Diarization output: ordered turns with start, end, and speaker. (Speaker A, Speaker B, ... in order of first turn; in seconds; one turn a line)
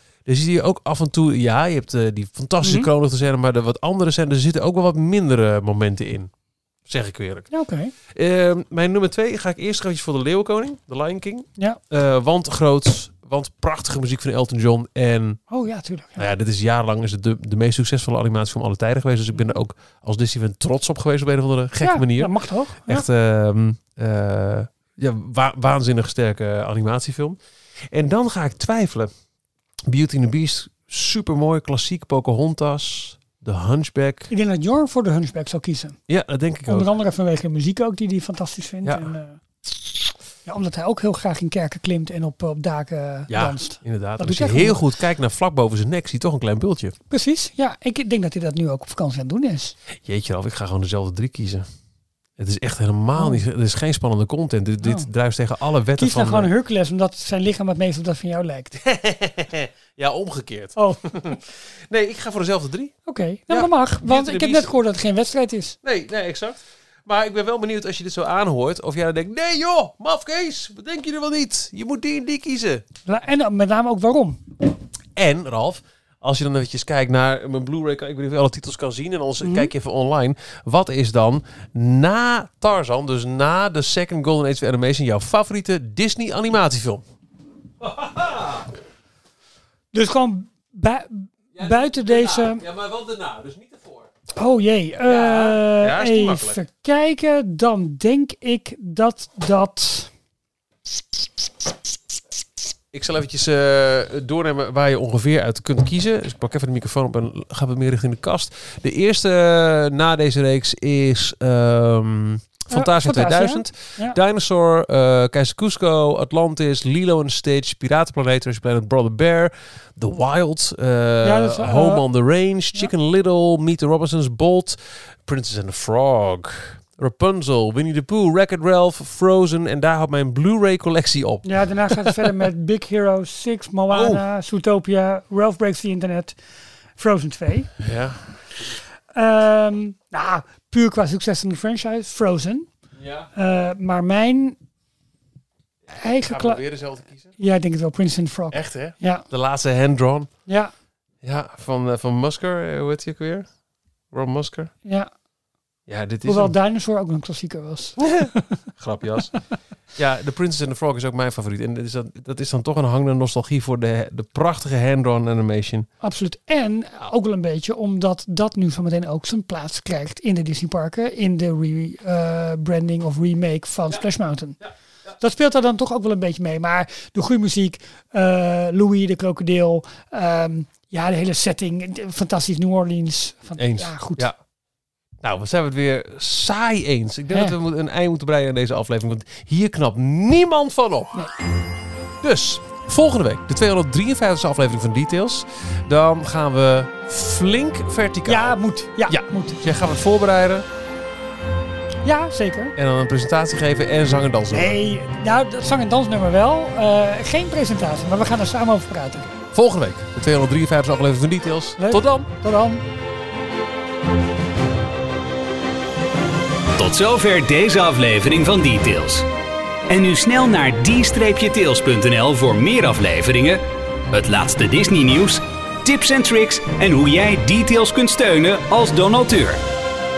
Speaker A: 0.2-6.3
Speaker B: 2.6-2.9
Speaker A: 6.8-7.5
Speaker B: 7.5-7.9
Speaker A: 8.1-15.4
Speaker B: 15.5-16.3
Speaker A: 16.2-27.4
Speaker B: 21.8-23.0
Speaker A: 27.9-29.1
Speaker A: 29.9-34.3
Speaker B: 34.3-36.0
Speaker A: 36.1-36.9
Speaker B: 36.7-44.8
Speaker A: 38.8-39.1
Speaker A: 43.3-46.9
Speaker B: 47.1-49.7
Speaker A: 50.0-51.7
Speaker A: 52.4-56.5
Speaker B: 54.8-55.1
Speaker B: 56.0-58.8
Speaker A: 58.7-63.0
Speaker B: 60.8-61.4
Speaker B: 63.0-65.8
Speaker A: 63.5-64.7
Speaker A: 65.8-72.8
Speaker B: 73.0-74.4
Speaker A: 75.2-87.0
Speaker B: 79.4-79.7
Speaker A: 87.8-88.7
Speaker B: 89.9-92.6
Speaker A: 91.5-94.1
Speaker B: 94.3-100.1
Speaker A: 95.0-96.6
Speaker A: 102.9-132.3
Speaker B: 112.7-114.2
Speaker B: 121.2-122.0
Speaker B: 131.4-136.4
Speaker A: 133.9-134.2
Speaker B: 137.0-137.8
Speaker A: 137.8-138.6
Speaker B: 139.1-142.7
Speaker A: 143.0-143.3
Speaker B: 143.3-144.6
Speaker B: 145.9-146.6
Speaker A: 146.2-147.3
Speaker B: 147.4-149.2
Speaker A: 148.5-150.3
Speaker B: 150.5-150.7
Speaker A: 151.2-153.5
Speaker A: 154.1-154.7
Speaker B: 154.8-155.1
Speaker A: 155.9-156.5
Speaker B: 156.2-158.6
Speaker A: 158.0-159.3
Speaker A: 159.9-165.9
Speaker B: 166.0-174.6
Speaker B: 175.2-184.3
Speaker A: 183.6-184.3
Speaker A: 185.2-191.2
Speaker B: 187.3-187.6
Speaker A: 192.2-200.7
Speaker B: 198.3-199.7
Speaker B: 202.0-202.7
Speaker A: 202.8-204.7
Speaker B: 204.5-209.4
Speaker A: 209.5-212.3
Speaker B: 211.8-212.8
Speaker C: 216.8-219.2
Speaker C: 219.9-229.6